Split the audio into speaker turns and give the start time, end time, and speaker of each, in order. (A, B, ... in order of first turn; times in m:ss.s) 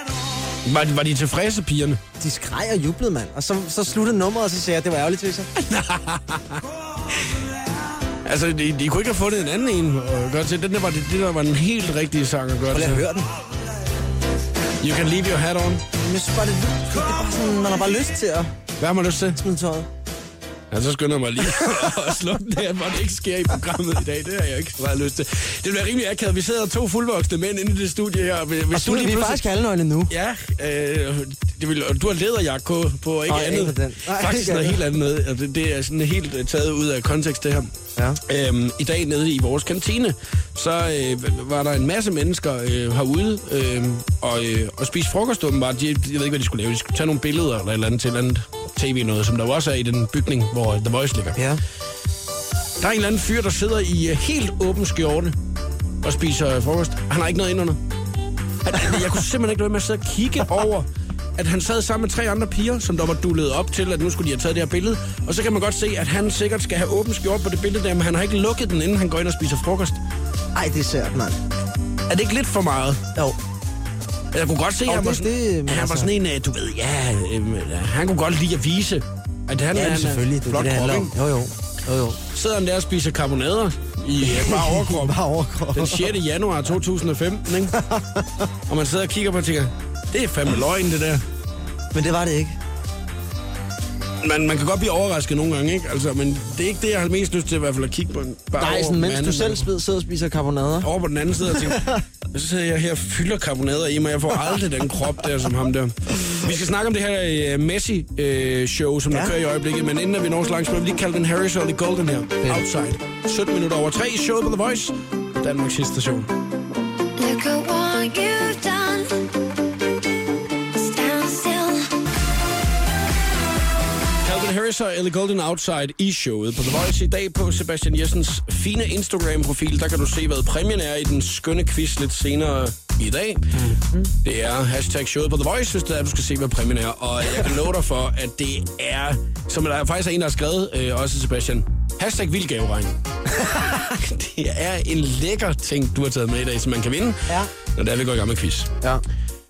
0:00.6-0:02.0 A
0:02.2-0:05.5 B
0:05.6-0:06.6 A
0:08.2-0:13.0 A
0:12.7-0:13.3 B
0:14.8-0:15.8 A
0:16.0-0:18.5 B
0:18.8-0:19.4 A
0:19.3-0:19.9 B
0:20.7-0:29.4 A
0:21.4-0:22.2 B
0:28.7-0:30.1 B
0:30.1-0:37.7 A
0:33.3-0:34.8 B
0:38.3-0:51.4 A
0:51.4-0:51.6 B
0:52.8-0:55.4 A
0:56.0-0:57.8 A
0:58.6-1:10.0 A
1:10.6-1:11.4 B
1:12.1-1:13.0 A
1:14.3-1:21.1 A
1:14.8-1:16.1 B
1:19.7-1:22.2 B
1:22.3-1:25.2 A
1:24.2-1:26.2 B
1:25.7-1:27.8 A
1:27.7-1:28.5 B
1:28.7-1:31.2 A
1:31.9-1:32.6 B
1:34.2-1:39.7 A
1:38.6-1:40.9 B
1:40.8-1:56.3 A
1:41.5-1:42.0 B
1:57.2-1:59.0 C
2:00.8-2:01.8 C
2:04.2-2:23.0 A
2:13.7-2:14.1 B
2:23.4-2:23.8 B
2:23.7-2:28.7 A